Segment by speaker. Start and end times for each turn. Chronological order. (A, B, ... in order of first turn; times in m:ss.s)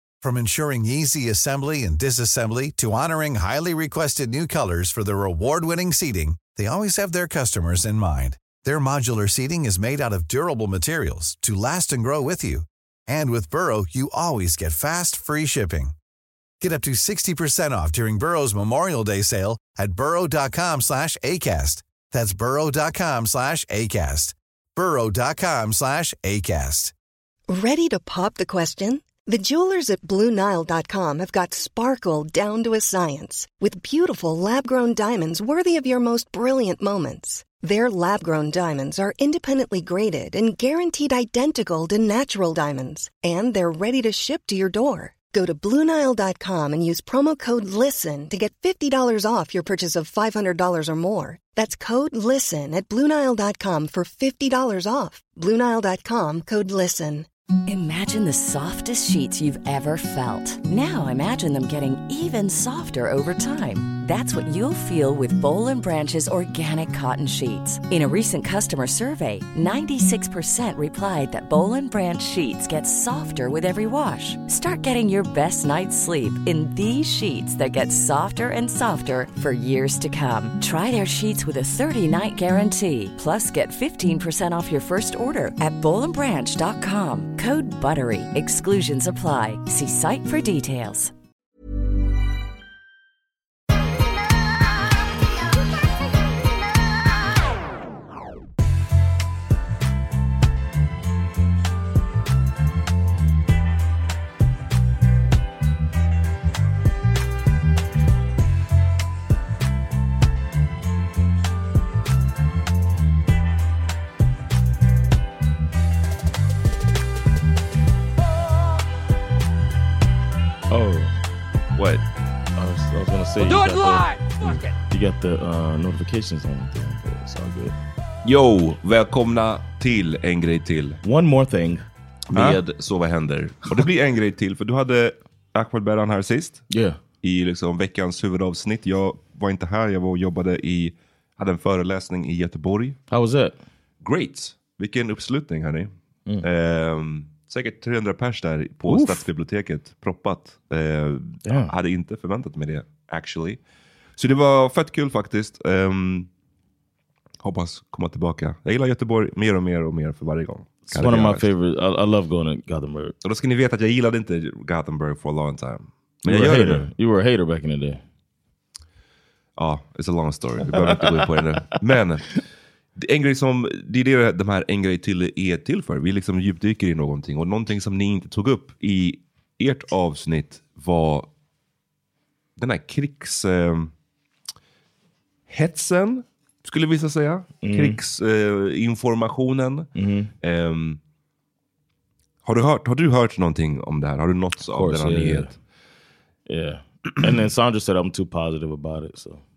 0:00.2-0:15.9 A
0:16.6-0:26.9 A
0:27.5-0:57.3 B
0:57.7-1:31.1 C
2:00.7-2:01.1 D
2:01.8-2:02.0 E
2:02.6-2:07.7 D
2:08.2-2:11.0 E
2:11.0-2:12.6 D
2:12.3-2:16.6 E
2:16.7-2:17.0 D
2:17.2-2:23.0 E
2:23.1-2:23.5 D
2:24.0-2:25.9 E
2:26.4-2:33.6 E
2:28.9-2:29.2 D
2:34.2-2:36.3 E
2:37.4-2:41.5 E
2:40.9-2:43.1 D
2:43.2-2:46.9 E
2:46.3-2:48.0 D
2:49.6-2:52.4 E
2:53.0-3:01.3 E
3:02.6-3:03.9 E
3:05.5-3:09.9 E
3:07.6-3:08.0 D
3:10.0-3:10.3 D
3:10.4-3:11.0 E
3:12.4-3:15.6 E
3:14.7-3:15.5 D
3:16.5-3:19.4 D